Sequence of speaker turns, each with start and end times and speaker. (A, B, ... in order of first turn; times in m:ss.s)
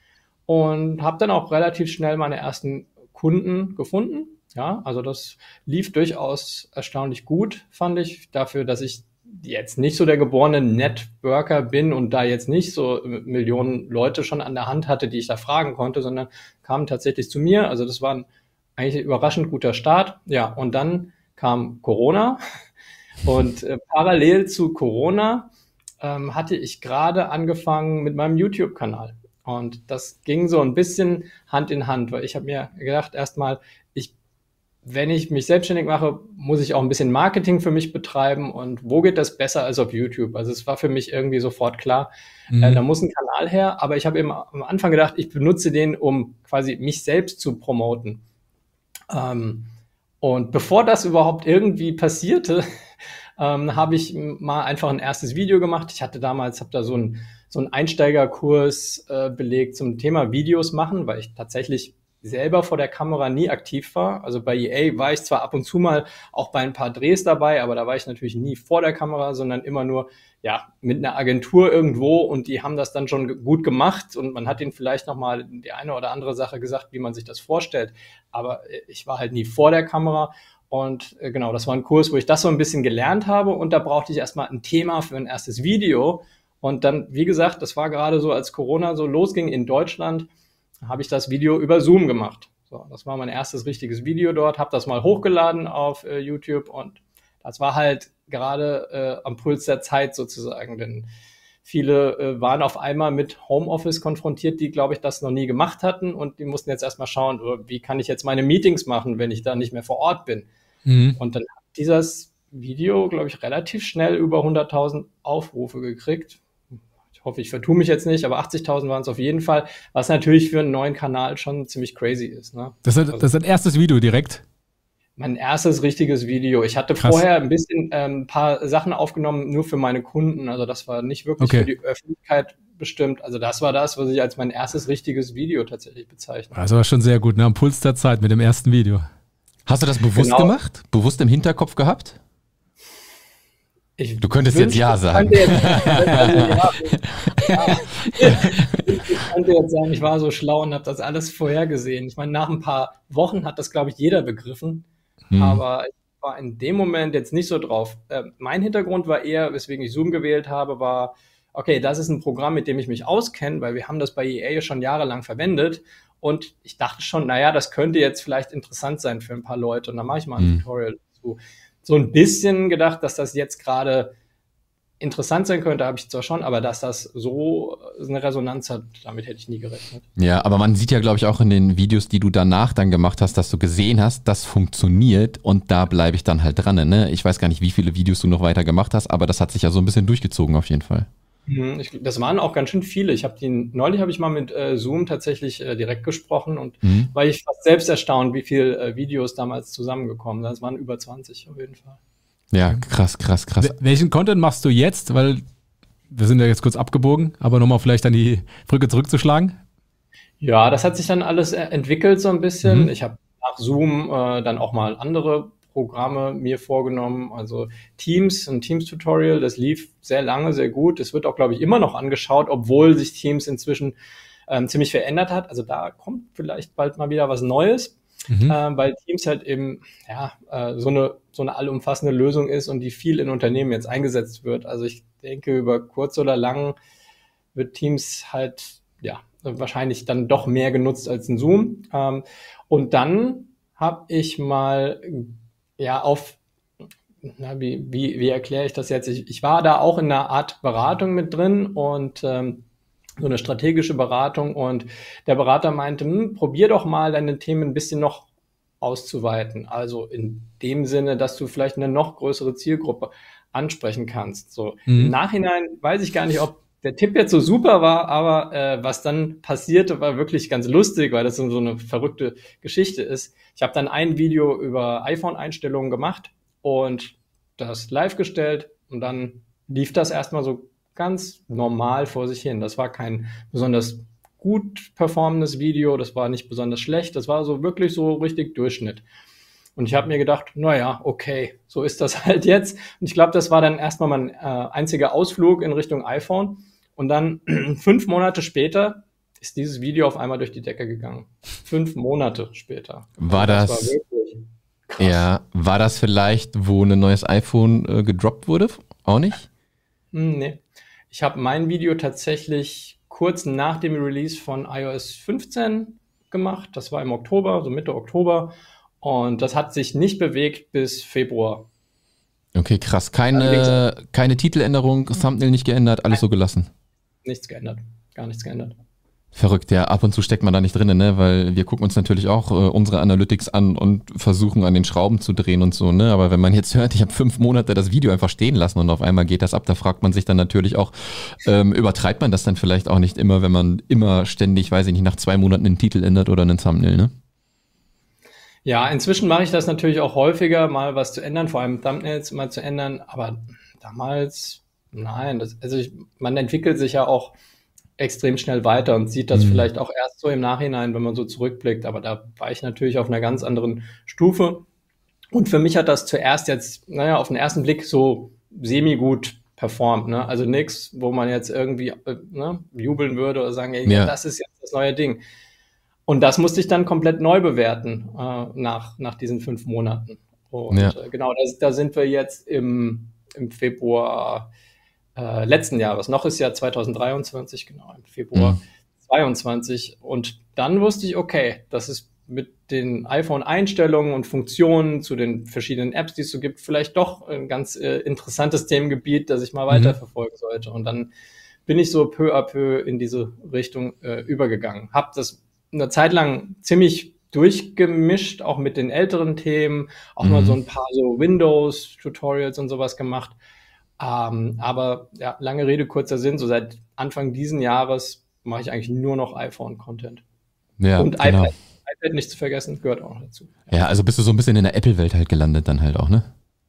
0:00.5-0:22.4 A
0:23.2-0:25.5 A
0:26.0-0:34.1 A
0:34.8-0:48.2 A
0:42.5-0:42.8 B
0:49.1-0:49.7 A
0:50.2-0:52.6 A
0:53.4-1:30.3 A
1:30.8-1:41.1 A
1:41.6-1:50.5 A
1:50.8-1:51.2 B
1:51.2-1:56.4 A
1:57.2-2:03.3 A
2:02.8-2:04.4 B
2:05.2-2:16.5 A
2:11.4-2:11.7 B
2:16.5-2:19.0 B
2:19.6-2:22.2 C
2:20.1-2:20.5 A
2:24.0-2:54.1 A
2:24.2-2:27.3 C
2:28.2-2:28.5 C
2:35.3-2:35.6 C
2:55.0-3:00.1 A
3:00.2-3:11.1 C
3:11.5-3:22.0 A
3:16.8-3:17.1 C
3:22.5-3:23.8 C
3:23.6-3:25.4 B
3:26.1-3:29.6 B
3:30.4-3:43.9 A
3:44.5-3:56.8 A
3:48.3-3:48.6 B
3:57.5-4:06.4 A
4:07.2-4:12.6 A
4:13.2-4:18.3 A
4:18.8-4:49.0 A
4:24.9-4:25.1 B
4:49.8-5:05.2 A
5:03.2-5:03.9 C
5:05.0-5:09.5 C
5:10.1-5:21.7 A
5:22.5-5:26.7 C
5:23.3-5:23.8 A
5:27.2-5:28.8 A
5:29.3-5:47.1 C
5:48.6-5:57.3 A
5:58.0-6:04.6 A
5:59.3-5:59.7 C
6:05.3-6:15.2 A
6:13.8-6:14.1 C
6:16.1-6:24.5 A
6:25.2-6:41.1 A
6:28.3-6:28.6 C
6:41.6-6:53.4 A
6:50.2-6:50.6 C
6:54.0-7:00.2 A
7:00.8-7:01.5 C
7:01.0-7:03.7 A
7:03.7-7:06.3 C